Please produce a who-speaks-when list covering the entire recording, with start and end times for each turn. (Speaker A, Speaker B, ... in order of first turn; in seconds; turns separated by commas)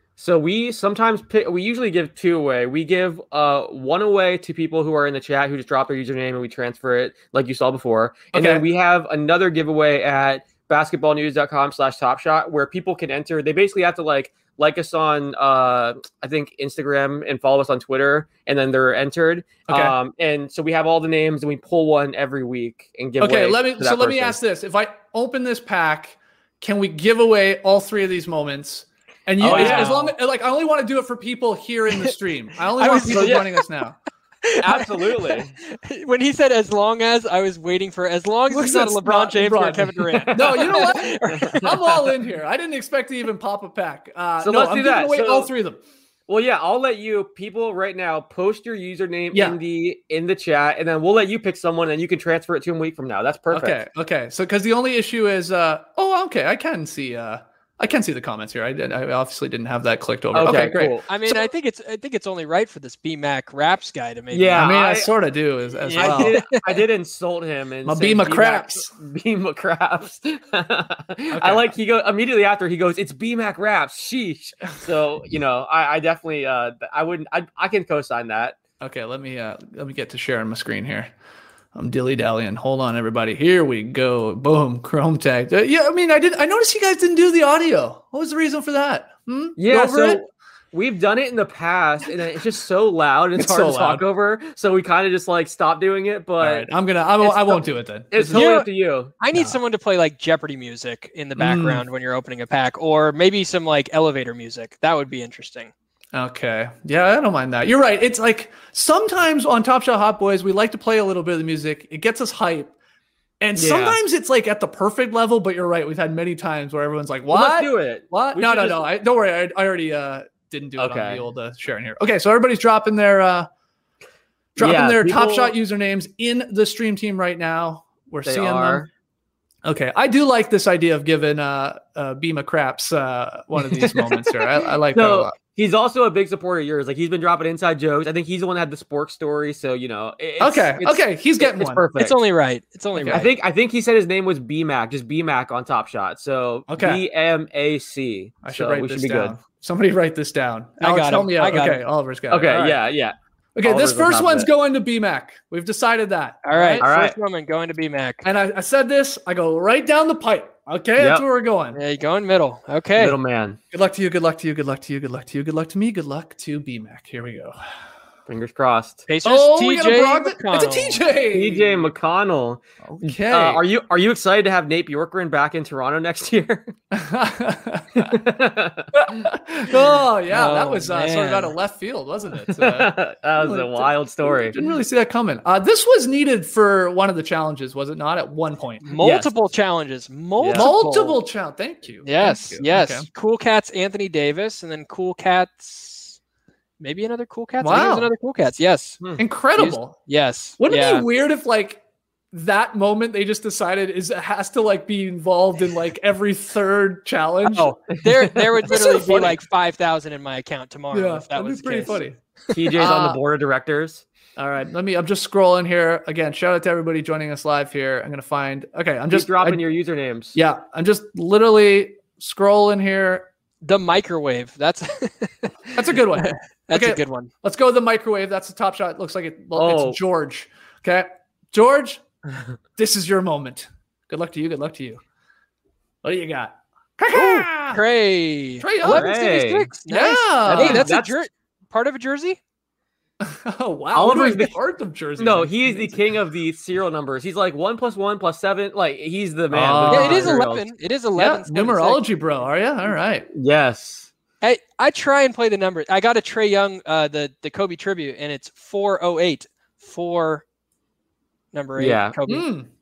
Speaker A: 0.2-24.4, Speaker B: 8.3-8.6, Speaker B: 19.7-19.9, Speaker B: 23.2-34.0, Speaker A: 29.4-30.1, Speaker C: 29.4-30.1, Speaker C: 32.8-33.6, Speaker A: 33.1-33.4, Speaker C: 34.4-41.8, Speaker A: 34.6-35.5, Speaker B: 38.5-45.8, Speaker A: 40.6-41.7, Speaker A: 44.4-45.5, Speaker A: 46.3-53.8, Speaker B: 49.3-49.6, Speaker B: 53.5-61.5, Speaker A: 60.3-61.0, Speaker C: 61.1-64.7, Speaker A: 64.3-65.1, Speaker B: 64.5-66.3, Speaker C: 65.8-66.8, Speaker A: 66.0-78.5, Speaker B: 67.8-68.9, Speaker B: 71.3-71.7, Speaker B: 78.8-81.1, Speaker B: 81.7-90.2, Speaker A: 89.6-96.7, Speaker B: 93.3-94.0, Speaker B: 96.4-98.4, Speaker A: 97.2-99.1, Speaker C: 98.3-98.7, Speaker C: 99.2-105.7, Speaker B: 99.3-99.6, Speaker B: 101.4-101.8, Speaker B: 106.1-112.7, Speaker B: 113.4-123.5, Speaker A: 113.6-114.0, Speaker A: 117.3-118.8, Speaker A: 120.8-121.2, Speaker B: 124.6-128.8, Speaker A: 124.6-125.5, Speaker A: 128.2-128.9, Speaker B: 129.6-135.3, Speaker A: 133.6-142.1, Speaker B: 140.4-141.8, Speaker C: 142.0-143.2, Speaker B: 143.0-143.3, Speaker A: 143.1-149.3, Speaker B: 146.7-147.0, Speaker B: 148.4-152.8, Speaker C: 150.8-151.8, Speaker A: 152.3-154.5, Speaker B: 153.6-156.8, Speaker C: 156.4-158.2, Speaker A: 156.8-157.2, Speaker B: 158.2-161.8, Speaker A: 161.0-161.2, Speaker C: 161.7-163.2, Speaker A: 163.0-163.6, Speaker B: 163.7-167.6, Speaker A: 168.3-169.1, Speaker C: 169.1-171.0, Speaker B: 169.2-171.9, Speaker A: 171.3-176.7, Speaker B: 172.8-173.6, Speaker B: 176.9-178.2, Speaker A: 178.0-180.0, Speaker B: 178.9-188.8, Speaker C: 180.3-181.5, Speaker A: 182.5-184.6, Speaker C: 188.8-191.2, Speaker A: 189.0-189.3, Speaker A: 190.4-190.7, Speaker B: 190.5-193.1, Speaker C: 192.0-196.2, Speaker C: 196.8-199.0, Speaker B: 197.6-198.1, Speaker B: 199.2-200.0, Speaker C: 199.6-201.1, Speaker B: 200.6-207.7, Speaker C: 207.5-212.0, Speaker A: 208.1-208.4, Speaker B: 208.7-209.4, Speaker B: 210.9-212.2, Speaker A: 212.5-214.0, Speaker B: 212.8-213.2, Speaker B: 214.4-219.6, Speaker A: 219.1-220.3, Speaker B: 220.3-223.3, Speaker C: 223.6-225.7, Speaker B: 225.7-232.0, Speaker C: 226.2-227.3, Speaker A: 229.5-230.0, Speaker B: 232.8-235.0, Speaker B: 236.0-237.8, Speaker C: 237.1-242.4, Speaker B: 238.6-239.1, Speaker A: 238.8-239.7, Speaker B: 239.8-240.9, Speaker A: 240.4-241.1, Speaker B: 243.2-246.0, Speaker A: 243.9-244.6, Speaker A: 245.2-250.7, Speaker B: 249.5-250.3, Speaker C: 249.9-252.0, Speaker B: 251.2-253.3, Speaker A: 253.3-254.1, Speaker C: 254.4-260.4, Speaker C: 261.5-262.4, Speaker A: 261.8-262.1, Speaker B: 262.3-262.7